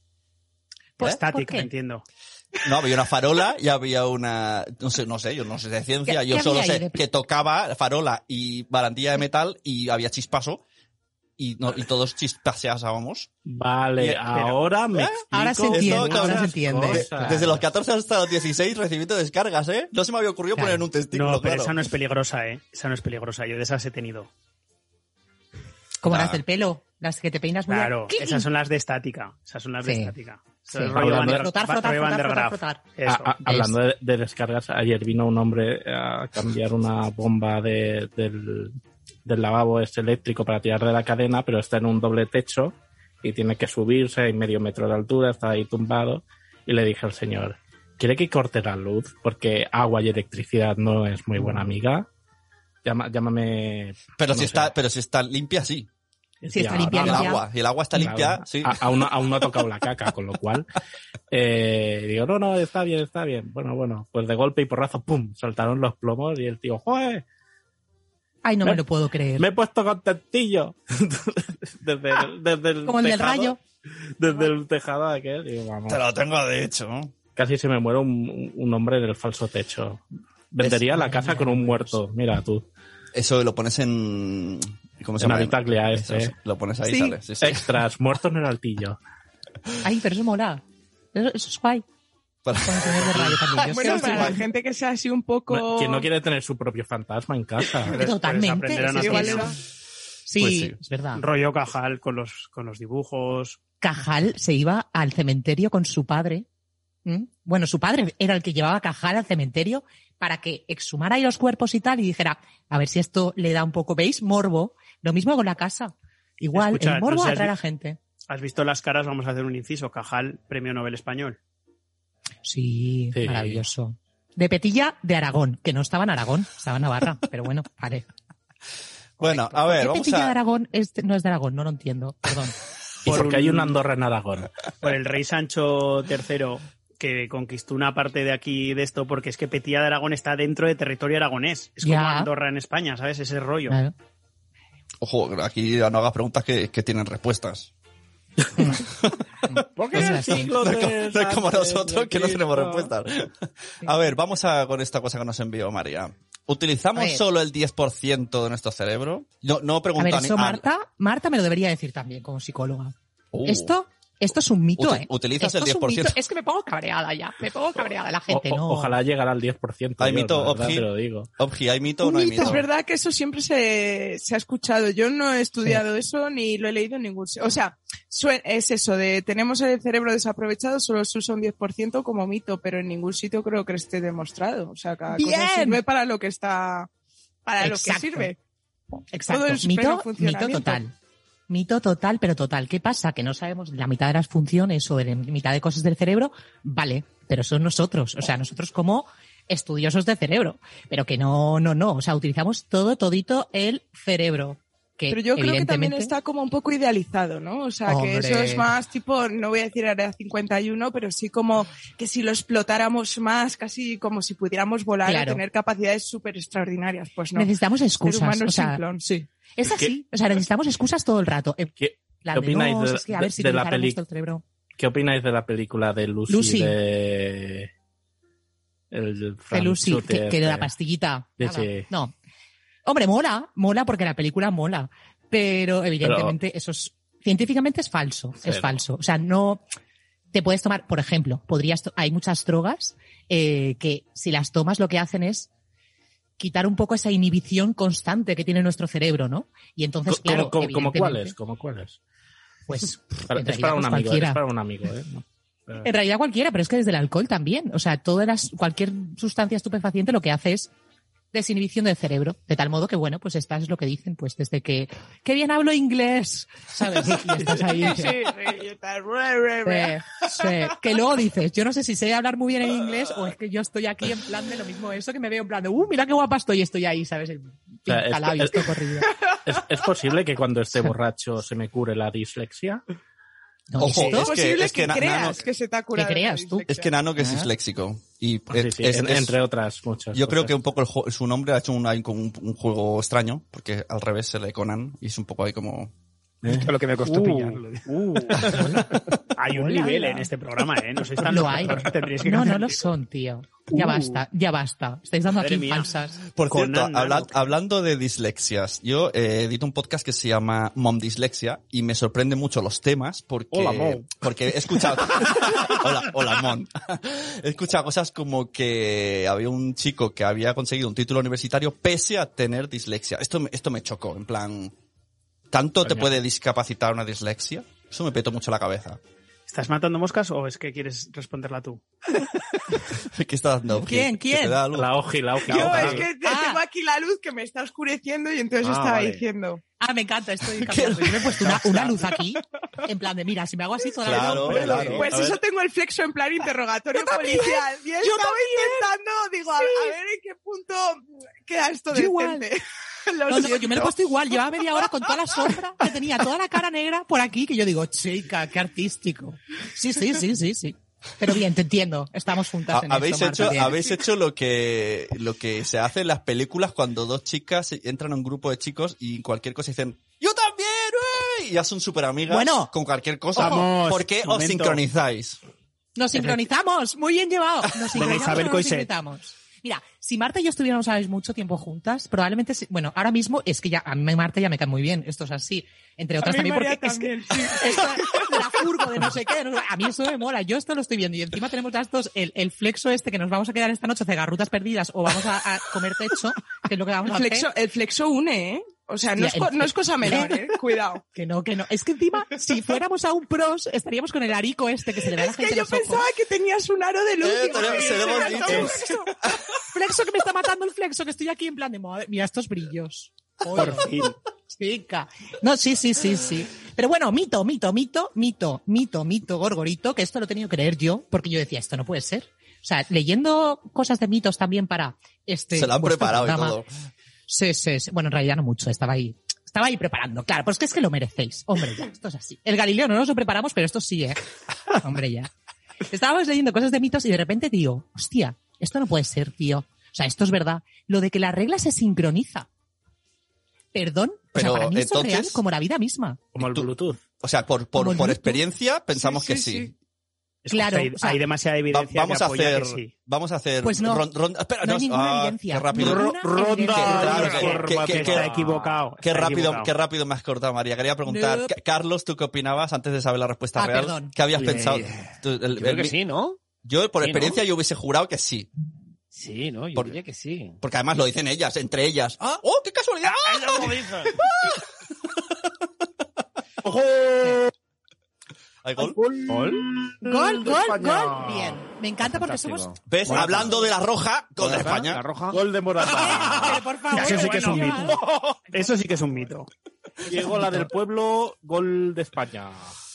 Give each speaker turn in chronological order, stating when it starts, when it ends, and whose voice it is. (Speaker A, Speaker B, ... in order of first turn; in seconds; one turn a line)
Speaker A: 1.0-1.7
Speaker B: 1.0-2.0
Speaker C: 2.6-10.6
Speaker A: 6.0-7.0
Speaker C: 11.4-13.3
Speaker D: 13.5-17.6
Speaker C: 14.0-21.9
Speaker A: 15.3-17.2
Speaker A: 20.6-20.9
Speaker B: 21.1-24.3
Speaker A: 26.0-28.5
Speaker C: 26.0-26.4
Speaker B: 27.7-33.4
Speaker A: 29.8-30.1
Speaker A: 30.7-32.8
Speaker D: 30.8-31.5
Speaker D: 33.0-52.1
Speaker A: 33.5-33.7
Speaker D: 52.8-54.7
Speaker C: 54.2-55.9
Speaker D: 56.4-57.4
Speaker A: 56.5-57.4
Speaker C: 56.9-58.8
Speaker D: 58.0-60.7
Speaker D: 61.3-67.2
Speaker A: 68.4-69.5
Speaker D: 69.4-73.5
Speaker A: 72.8-73.6
Speaker D: 74.2-76.0
Speaker C: 75.9-77.1
Speaker D: 77.3-82.7
Speaker C: 80.6-80.8
Speaker A: 80.9-81.9
Speaker C: 83.1-87.8
Speaker D: 85.2-86.3
Speaker A: 86.8-87.2
Speaker D: 87.4-89.0
Speaker A: 89.8-90.6
Speaker A: 91.1-91.8
Speaker C: 92.4-94.4
Speaker A: 92.6-94.4
Speaker E: 93.7-96.1
Speaker D: 95.5-98.0
Speaker A: 97.9-99.5
Speaker B: 98.0-99.5
Speaker E: 99.0-99.5
Speaker A: 100.3-101.2
Speaker C: 100.4-100.8
Speaker B: 101.2-103.6
Speaker A: 103.8-106.5
Speaker A: 107.0-118.0
Speaker B: 116.5-117.5
Speaker B: 118.3-121.4
Speaker A: 122.4-128.1
Speaker D: 123.1-123.6
Speaker C: 129.2-130.3
Speaker A: 129.2-132.5
Speaker D: 133.0-134.5
Speaker B: 133.1-133.8
Speaker B: 134.8-143.8
Speaker A: 141.8-142.3
Speaker A: 143.7-143.9
Speaker C: 145.0-147.7
Speaker C: 148.8-149.2
Speaker A: 149.5-150.5
Speaker D: 149.8-152.9
Speaker C: 149.9-160.7
Speaker A: 157.0-157.2
Speaker A: 160.0-169.0
Speaker C: 163.3-163.8
Speaker C: 164.8-166.2
Speaker D: 168.3-171.3
Speaker C: 170.0-172.7
Speaker E: 172.1-186.9
Speaker A: 172.2-172.6
Speaker A: 185.1-185.8
Speaker E: 187.4-188.4
Speaker A: 187.6-188.3
Speaker A: 189.1-190.9
Speaker E: 189.3-190.8
Speaker A: 191.5-206.1
Speaker E: 205.1-219.0
Speaker A: 207.9-208.7
Speaker A: 215.0-215.4
Speaker A: 217.3-224.4
Speaker D: 221.8-224.0
Speaker D: 224.8-227.7
Speaker A: 226.3-226.8
Speaker D: 228.9-230.7
Speaker A: 229.5-232.1
Speaker D: 231.4-231.9
Speaker A: 232.8-239.6
Speaker D: 236.0-236.4
Speaker D: 238.4-238.8
Speaker A: 240.3-245.5
Speaker A: 246.4-251.3
Speaker D: 250.1-252.0
Speaker A: 252.7-254.4
Speaker D: 253.3-255.9
Speaker A: 255.8-260.7
Speaker A: 261.3-268.2
Speaker E: 267.5-270.7
Speaker A: 269.6-279.1
Speaker D: 277.9-278.8
Speaker D: 279.5-282.8
Speaker A: 283.7-284.3
Speaker C: 283.8-285.4
Speaker B: 283.9-284.2
Speaker E: 284.1-286.9
Speaker A: 285.9-287.5
Speaker C: 286.7-289.4
Speaker D: 288.5-290.5
Speaker C: 290.1-295.9
Speaker D: 296.4-297.6
Speaker F: 296.5-298.5
Speaker B: 297.9-298.6
Speaker A: 298.5-298.8
Speaker B: 299.4-302.8
Speaker A: 299.5-300.3
Speaker A: 301.2-306.2
Speaker F: 303.9-304.2
Speaker B: 305.4-305.9
Speaker C: 306.4-324.7
Speaker B: 306.5-307.5
Speaker D: 313.5-314.1
Speaker C: 325.5-329.0
Speaker D: 325.8-326.1
Speaker B: 329.5-331.8
Speaker C: 333.1-334.9
Speaker A: 333.8-334.6
Speaker D: 334.7-336.0
Speaker E: 335.5-339.6
Speaker C: 335.6-336.0
Speaker A: 336.1-336.6
Speaker F: 338.6-339.2
Speaker A: 339.8-345.1
Speaker C: 340.6-341.8
Speaker C: 344.0-345.1
Speaker D: 344.1-345.4
Speaker E: 344.9-354.0
Speaker A: 347.0-348.9
Speaker A: 349.5-349.9
Speaker A: 351.9-352.5
Speaker A: 353.3-363.8
Speaker C: 362.7-375.4
Speaker A: 372.3-372.7
Speaker B: 373.4-374.8
Speaker A: 376.0-397.5
Speaker B: 377.9-378.9
Speaker E: 386.2-388.3
Speaker E: 397.1-401.0
Speaker A: 399.2-400.4
Speaker A: 401.1-406.1
Speaker E: 405.0-409.1
Speaker C: 407.2-409.3
Speaker A: 407.9-408.6
Speaker A: 409.7-413.9
Speaker B: 413.5-414.1
Speaker A: 414.5-426.6
Speaker C: 425.5-426.7
Speaker A: 427.3-434.2
Speaker A: 434.7-435.3
Speaker A: 435.9-442.5
Speaker A: 443.7-446.2
Speaker C: 444.3-445.4
Speaker D: 446.3-447.0
Speaker C: 446.4-446.7
Speaker C: 447.2-449.8
Speaker A: 447.8-448.4
Speaker E: 448.9-449.7
Speaker B: 450.4-452.9
Speaker A: 450.5-451.2
Speaker C: 451.7-458.3
Speaker A: 453.6-454.1
Speaker A: 454.6-457.2
Speaker D: 455.8-458.6
Speaker F: 456.9-457.2
Speaker B: 457.2-459.7
Speaker C: 459.0-466.0
Speaker A: 461.1-461.5
Speaker A: 463.6-464.2
Speaker F: 464.3-466.4
Speaker C: 466.6-468.5
Speaker F: 467.0-467.4
Speaker F: 469.1-470.6
Speaker C: 470.6-474.6
Speaker F: 473.1-474.2
Speaker D: 476.7-476.9
Speaker C: 478.6-479.0
Speaker D: 479.0-479.5
Speaker F: 479.2-479.6
Speaker A: 480.0-482.7
Speaker F: 480.8-481.3
Speaker F: 482.0-483.6
Speaker C: 482.9-485.0
Speaker F: 484.4-489.0
Speaker D: 485.3-487.7
Speaker A: 485.9-488.0
Speaker B: 486.9-488.0
Speaker B: 488.5-489.5
Speaker D: 490.1-492.7
Speaker F: 490.1-490.7